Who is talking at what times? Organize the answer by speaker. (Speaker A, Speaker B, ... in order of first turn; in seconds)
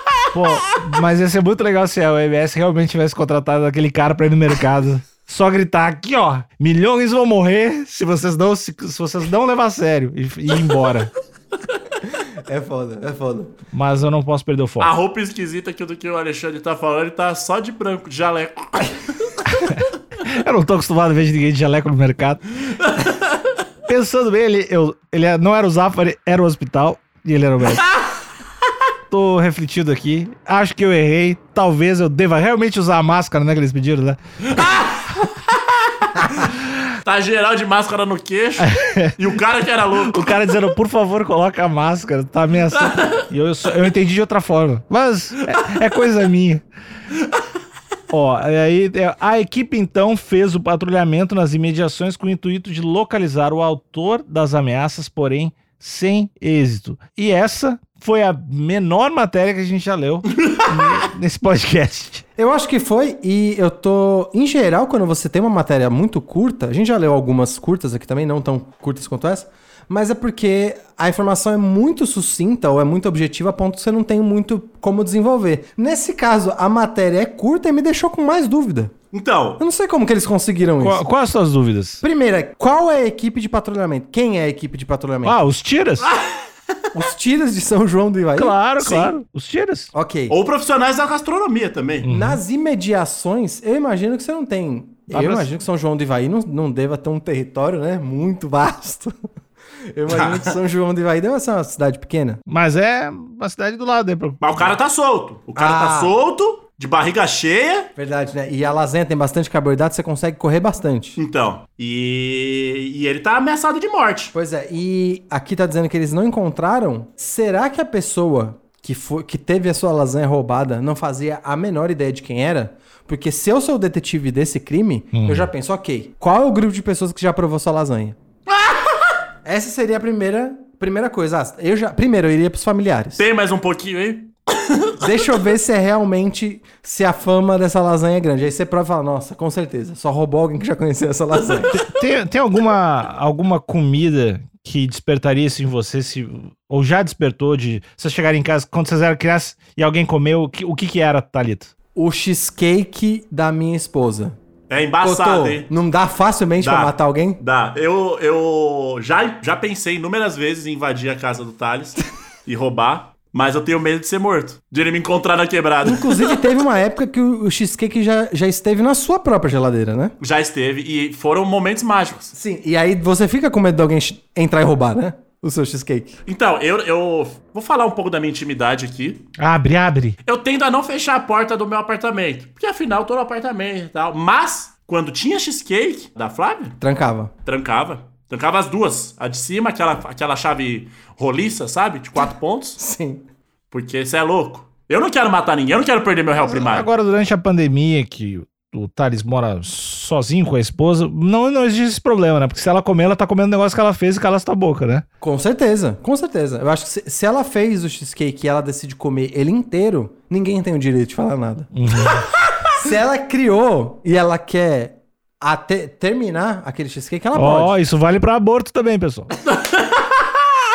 Speaker A: 0.3-11.1, 13.7-14.9, 19.5-22.4, 23.9-27.8, 29.1-34.2, 38.6-39.2, 40.0-46.6, 48.1-62.2, 80.8-82.0, 85.2-86.1, 88.3-89.9, 92.0-92.4, 95.1-95.5, 102.5-104.7, 125.1-125.5, 141.7-151.7, 179.4-180.2, 196.4-205.0, 211.7-212.2, 217.3-219.3
Speaker B: 12.4-13.5, 62.4-78.9, 79.6-81.0, 82.0-85.4, 86.9-88.6, 89.9-90.3, 92.1-99.1, 99.9-102.4, 105.5-106.1, 108.0-111.2, 114.3-128.2, 129.4-133.2, 135.0-141.7, 151.9-154.3, 155.0-157.4, 165.8-170.1, 172.3-176.2, 186.8-187.3, 192.8-193.2, 205.2-211.7, 212.7-217.7
Speaker C: 14.8-19.4, 34.5-35.3, 36.0-36.4, 37.0-40.6, 42.8-43.2, 79.1-79.6, 86.0-86.4, 88.8-89.1, 90.3-92.1, 100.1-100.5, 104.4-107.9, 111.2-114.3, 128.5-129.1, 133.2-135.3, 154.7-155.7, 156.6-166.5, 170.2-172.3, 176.3-179.2, 180.2-186.7, 187.4-192.8, 193.7-196.9, 219.5-220.1